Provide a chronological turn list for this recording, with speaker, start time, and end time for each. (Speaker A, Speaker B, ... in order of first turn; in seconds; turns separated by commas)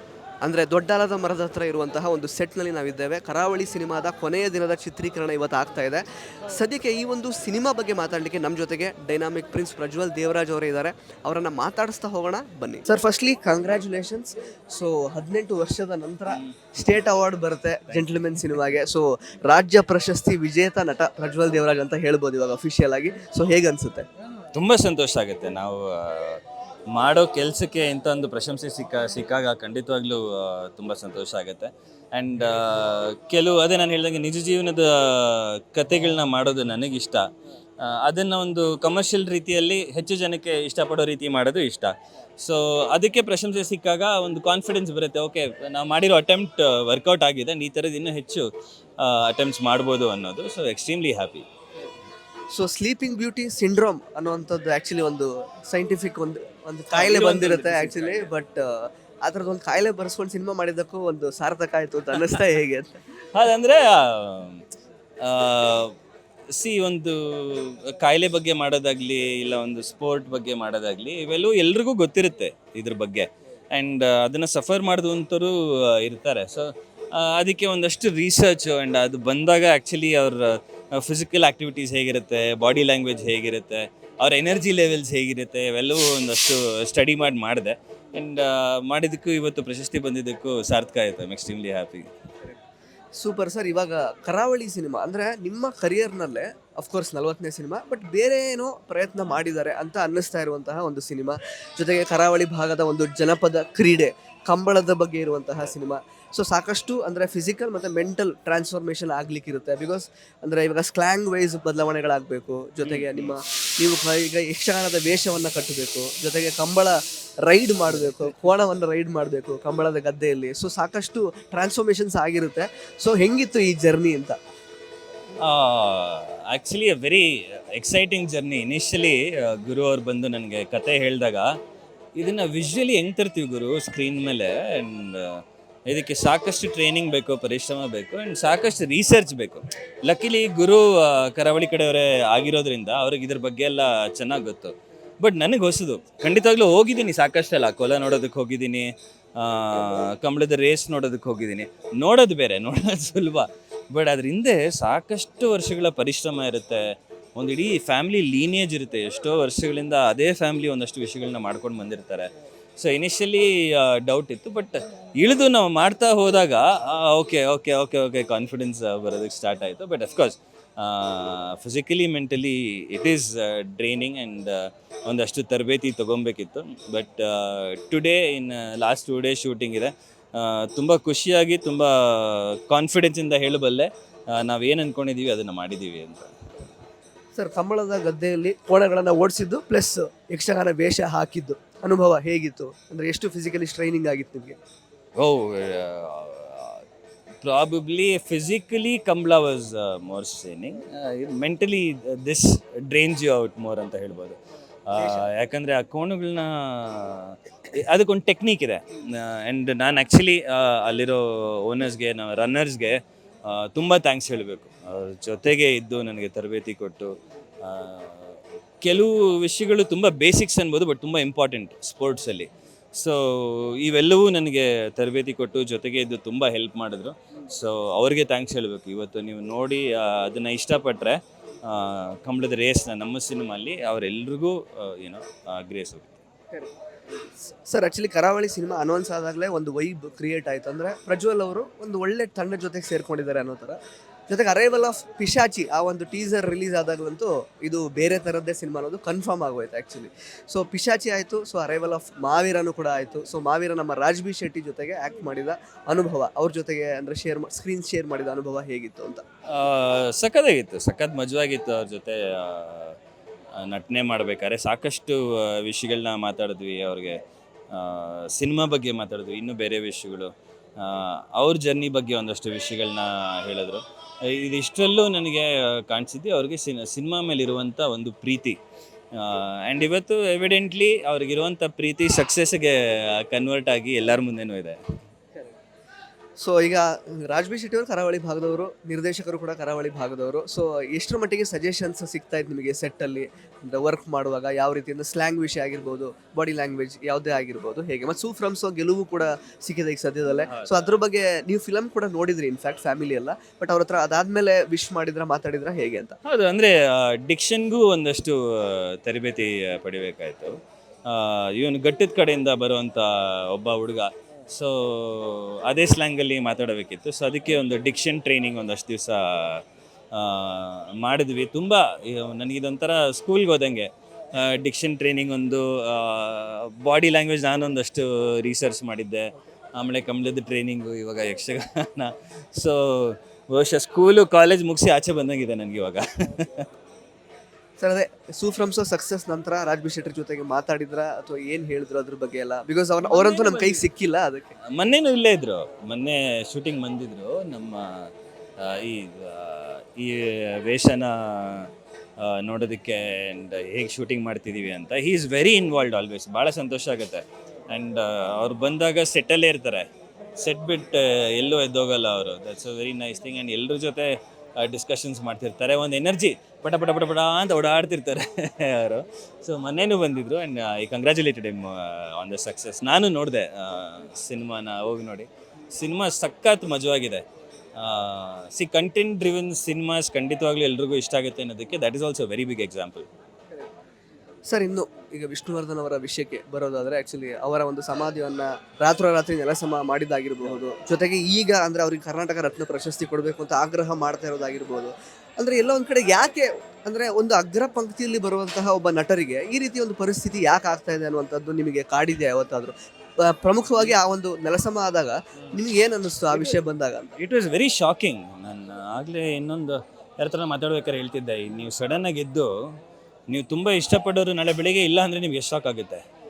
Speaker A: 0.4-24.1, Speaker B: 16.3-16.5, Speaker B: 17.9-18.6, Speaker B: 24.5-37.3, Speaker B: 37.8-51.4, Speaker A: 52.5-62.9, Speaker B: 56.9-58.3, Speaker B: 63.3-64.6, Speaker B: 65.2-65.9, Speaker B: 66.5-92.1, Speaker A: 93.1-124.4, Speaker B: 112.8-113.3, Speaker B: 125.4-131.5, Speaker B: 132.2-156.8, Speaker B: 157.3-186.3, Speaker A: 187.3-194.6, Speaker B: 195.2-196.8, Speaker B: 197.4-217.1, Speaker B: 217.6-236.2, Speaker A: 237.4-259.2, Speaker B: 259.5-263.0, Speaker B: 263.6-267.2, Speaker B: 267.7-278.6, Speaker B: 279.1-284.8, Speaker A: 286.4-306.2, Speaker B: 300.4-300.9, Speaker B: 306.2-310.6, Speaker B: 311.1-336.6, Speaker A: 337.8-344.5, Speaker B: 343.0-343.8, Speaker B: 344.7-377.2, Speaker B: 377.8-383.1, Speaker A: 384.5-407.1, Speaker B: 406.3-406.6, Speaker B: 407.2-412.5, Speaker B: 413.3-416.0